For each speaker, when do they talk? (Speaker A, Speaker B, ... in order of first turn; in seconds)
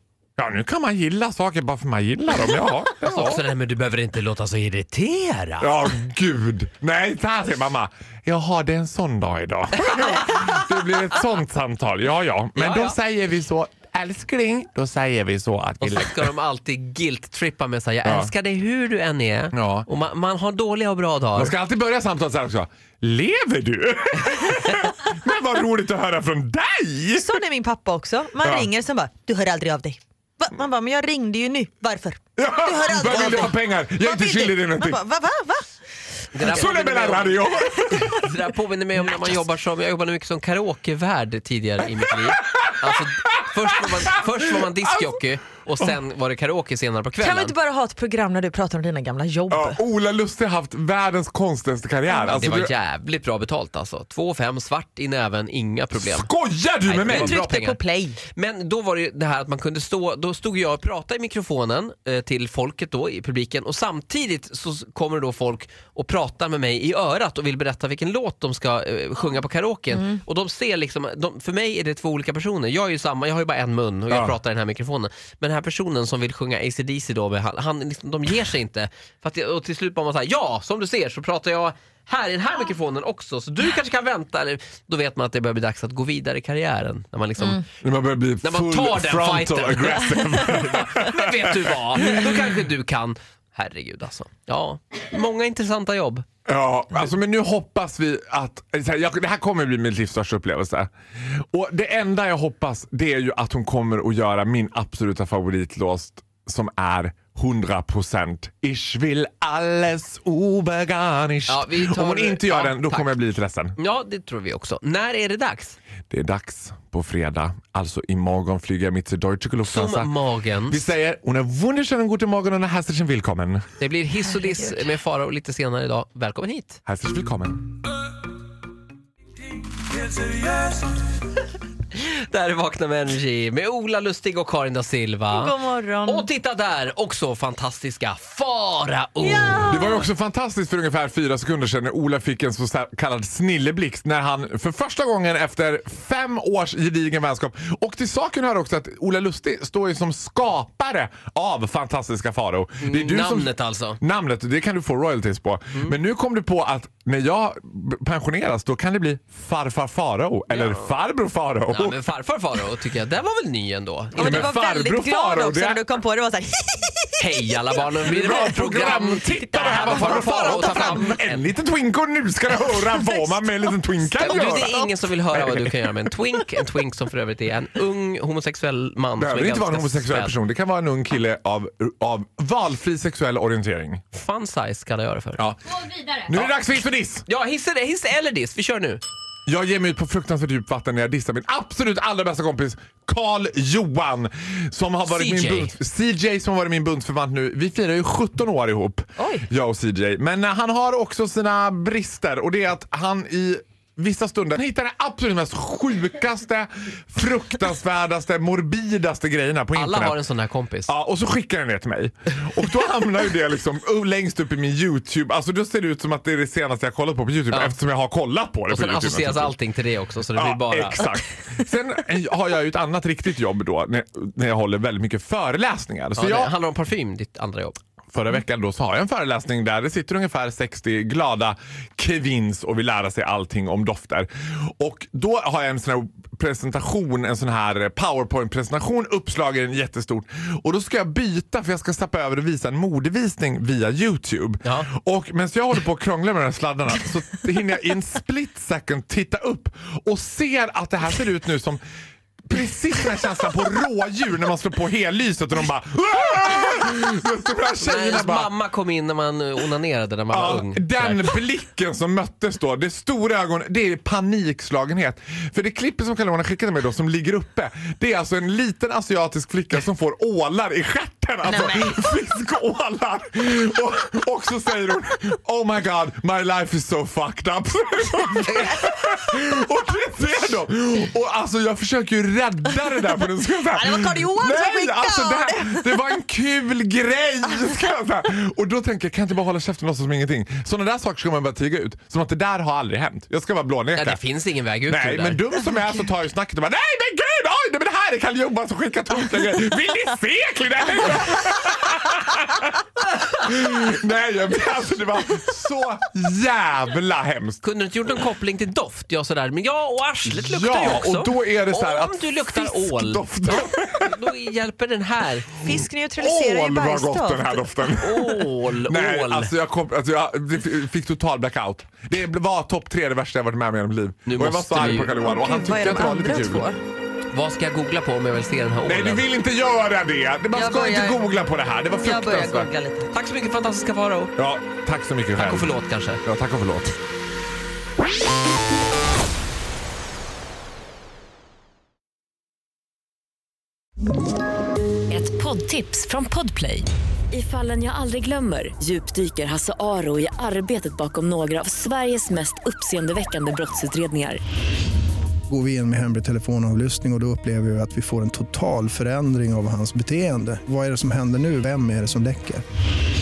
Speaker A: 0.4-3.4, 5.6-16.3, 18.0-18.3, 19.5-19.9, 21.4-27.4, 28.4-28.7, 32.4-35.0, 36.4-38.3, 42.4-42.9, 44.0-45.1, 49.5-52.7, 55.9-57.4, 74.1-74.3, 87.8-92.5, 96.5-100.9, 101.5-113.8, 116.1-120.1, 120.7-123.6, 126.8-127.8, 139.6-162.0, 164.2-165.8, 168.1-174.7, 175.3-175.9, 179.2-184.0, 186.1-187.2, 189.5-210.2, 210.9-219.6, 220.3-226.5, 228.1-251.8, 252.4-258.5, 260.3-294.2, 294.9-307.6, 310.2-314.2, 315.7-326.7, 328.9-332.7, 334.4-336.9
Speaker B: 3.0-5.9, 12.5-13.0, 15.8-21.6, 36.3-47.5, 52.1-56.3, 56.8-57.8, 58.3-87.7, 88.4-96.2, 111.5-113.1, 113.8-115.8, 119.6-120.9, 123.8-126.8, 129.9-130.7, 131.9-135.5, 136.1-139.7, 152.8-154.0, 160.5-160.9, 161.7-164.5, 167.2-171.5, 174.2-180.3, 184.1-185.4, 186.3-186.6, 187.2-189.0, 195.1-195.8, 209.7-210.9, 217.5-217.8, 218.7-221.1, 226.1-227.8, 257.8-261.4, 293.9-295.4, 307.6-315.5, 318.0-319.5, 324.2-325.1, 327.3-329.3, 333.1-334.3, 335.4-336.2
Speaker C: 27.1-35.7, 47.2-49.8, 57.1-58.2, 135.3-136.3, 139.2-140.0, 164.1-167.4, 169.2-171.1, 172.6-174.9, 199.2-199.4, 271.4-272.0, 278.5-278.9, 283.7-286.0, 315.6-317.7, 325.2-326.8, 330.5-331.2, 332.0-333.1
Speaker D: 345.1-354.4
Speaker E: 355.5-362.6